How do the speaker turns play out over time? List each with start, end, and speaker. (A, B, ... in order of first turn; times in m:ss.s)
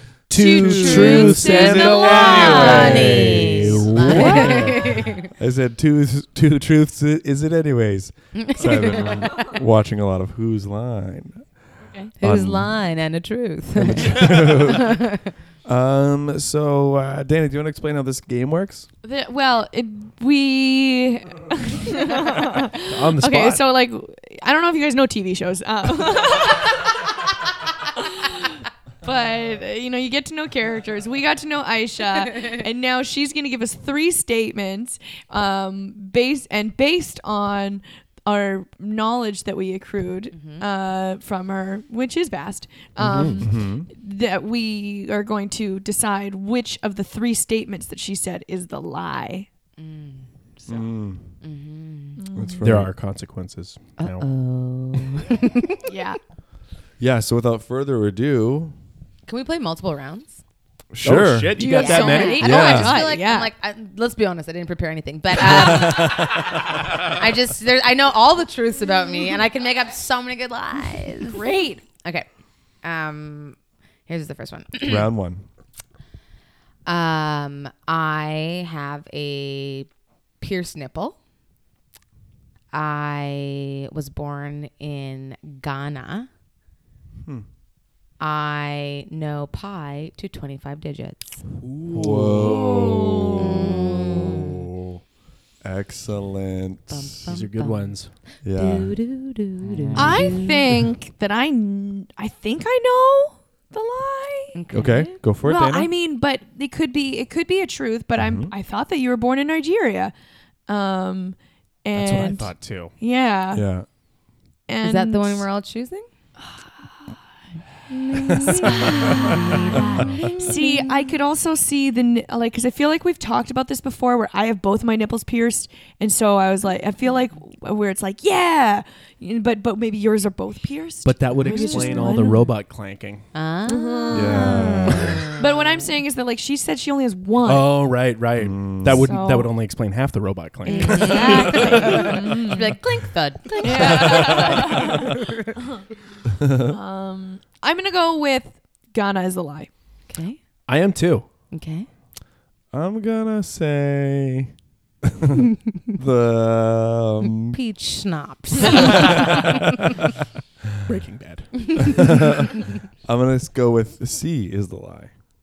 0:00.3-0:04.8 A
0:00.3-0:03.2 B
0:00.4-0:11.4 C
0:00.5-0:05.3 D
0:04.1-0:04.5 B
0:08.3-0:09.6 D
0:12.2-0:15.3 D
0:12.2-0:12.7 C
0:13.8-0:15.0 C
0:15.6-0:18.9 C
0:19.0-0:27.1 B
0:22.8-0:23.6 A
0:27.9-0:49.5 B
0:40.3-0:40.6 D
0:43.0-0:43.5 A
0:43.4-0:43.9 C
0:49.8-0:50.7 D
0:50.7-0:51.2 C
0:51.4-0:52.2 D
0:52.2-0:52.6 B
0:52.3-0:52.9 C
0:52.6-0:54.3 A
0:54.0-0:55.8 D
0:55.8-0:56.2 B
0:57.0-0:58.7 C
0:59.3-1:00.4 D
1:00.9-1:01.5 C
1:01.0-1:02.5 A
1:01.6-1:03.5 B
1:01.7-1:06.4 D
1:02.4-1:02.9 C
1:05.4-1:07.0 C
1:07.0-1:11.4 D
1:11.2-1:11.8 B
1:12.8-1:15.1 D
1:14.8-1:15.4 C
1:16.8-1:19.9 D
1:20.4-1:21.2 D
1:22.7-1:26.3 D
1:28.2-1:31.4 D
1:31.6-1:33.4 A
1:31.9-1:35.0 C
1:32.4-1:33.5 B
1:33.3-1:34.7 D
1:35.6-1:37.3 C
1:36.9-1:38.0 D
1:37.3-1:38.1 A
1:38.4-1:39.0 C
1:38.5-1:40.6 D
1:40.0-1:44.5 B
1:44.5-1:45.2 D
1:44.7-1:45.9 C
1:45.4-1:50.1 B
1:48.2-1:48.5 C
1:50.7-1:53.6 B
1:51.9-1:52.9 A
1:53.5-1:53.9 C
1:54.7-1:55.4 B
1:54.8-1:56.0 D
1:57.9-2:01.0 D
1:58.2-2:12.5 B
1:58.3-2:00.1 C
2:11.0-2:13.2 A
2:11.4-2:12.1 D
2:13.3-2:15.4 D
2:13.7-2:17.7 B
2:14.1-2:15.3 C
2:17.4-2:22.5 A
2:18.4-2:19.1 C
2:18.9-2:19.5 B
2:20.6-2:22.8 B
2:20.6-2:25.5 D
2:23.6-2:25.8 B
2:23.8-2:25.0 C
2:26.4-2:26.8 C
2:26.6-2:29.7 B
2:30.1-2:30.4 D
2:30.7-2:31.2 A
2:31.5-2:31.9 D
2:32.7-2:34.5 C
2:35.0-2:37.6 C
2:37.5-2:39.6 D
2:38.7-2:39.6 C
2:40.8-2:42.2 A
2:41.9-2:42.5 C
2:43.0-2:45.1 C